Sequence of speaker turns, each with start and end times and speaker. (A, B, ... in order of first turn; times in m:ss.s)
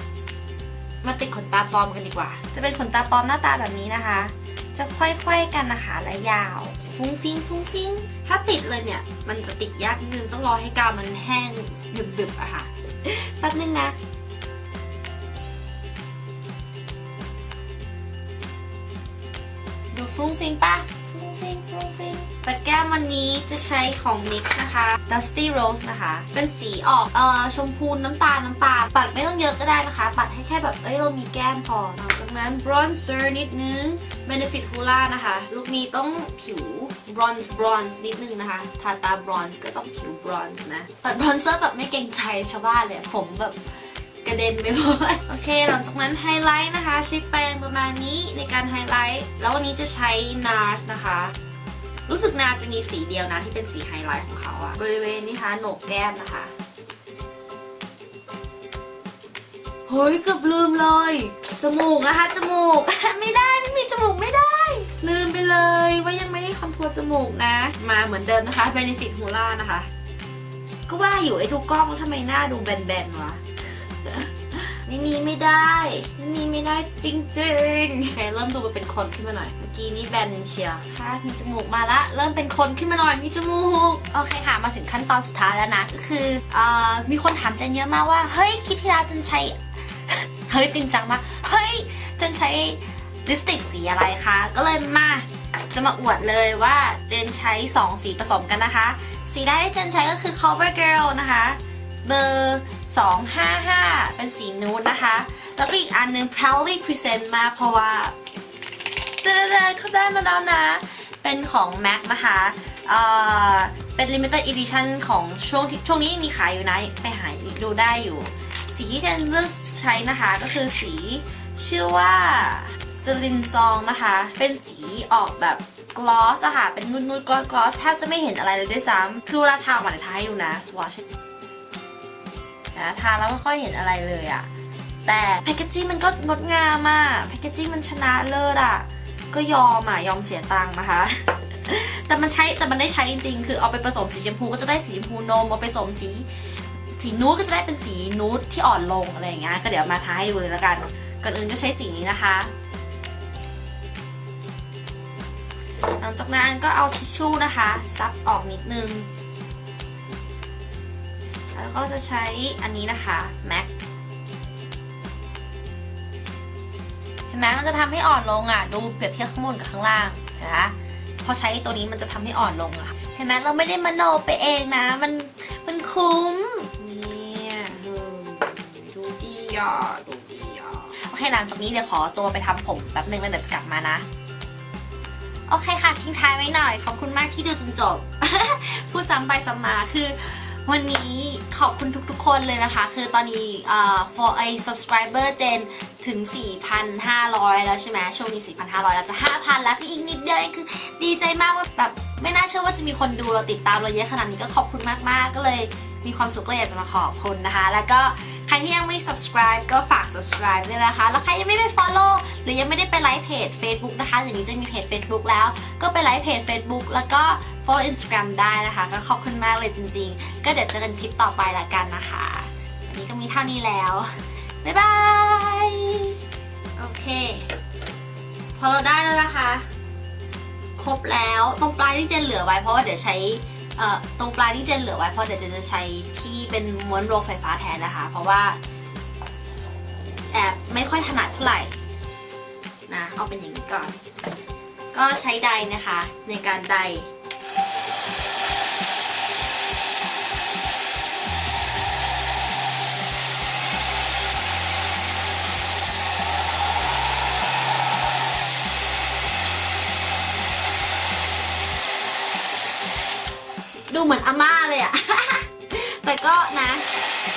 0:01.0-0:14.0 A
0:19.9-0:51.3 A
0:52.1-0:56.5 A
0:59.9-1:09.9 A
1:10.9-1:48.1 A
1:49.2-2:11.0 A
2:12.7-2:14.5 A
2:15.0-2:26.3 A
2:27.0-2:32.5 A
2:35.8-2:39.1 A
2:41.5-2:43.7 A
2:47.3-3:04.0 A
3:05.5-3:46.2 A
3:46.8-3:47.5 A
3:48.5-3:49.6 A
3:50.8-3:58.6 A
4:00.3-4:01.7 A
4:02.9-4:04.0 A
4:04.9-4:07.1 A
4:23.9-4:26.8 A